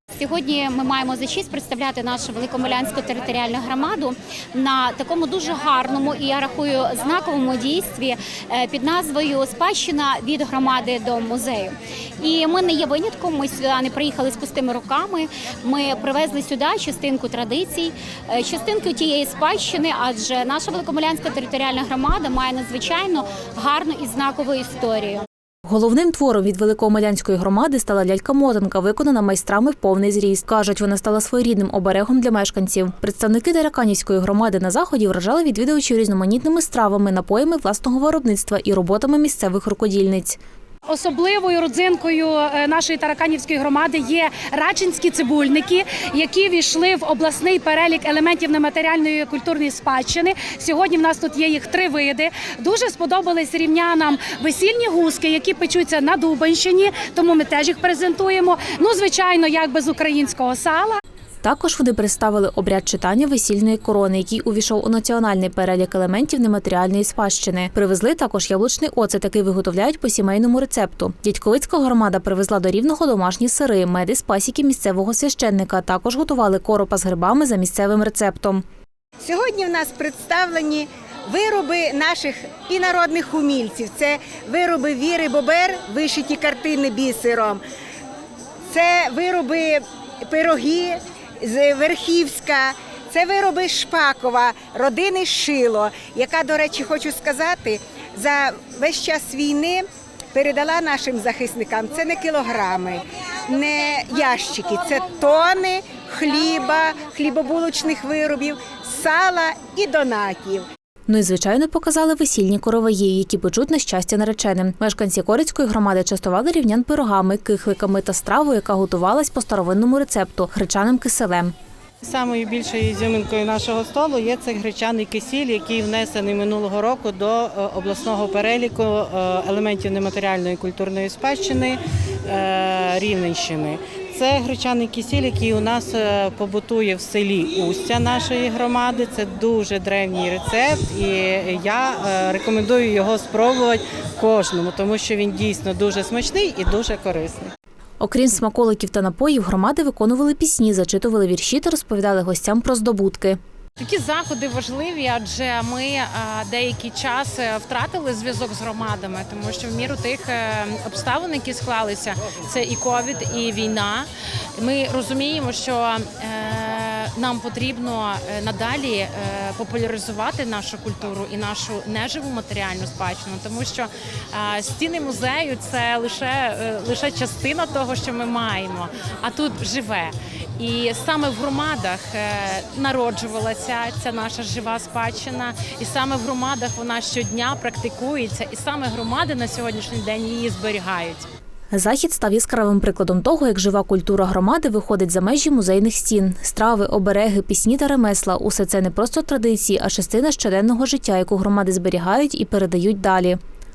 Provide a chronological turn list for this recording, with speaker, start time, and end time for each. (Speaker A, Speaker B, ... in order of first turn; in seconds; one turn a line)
Speaker A: 0.2-25.2
Speaker B: 25.7-40.4
Speaker C: 40.9-61.0
Speaker B: 61.4-78.6
Speaker D: 79.2-87.6
Speaker D: 88.7-110.7
Speaker B: 111.1-121.5
Speaker E: 122.0-147.5
Speaker B: 148.0-153.4
Speaker F: 153.8-191.3
Speaker B: 191.7-203.4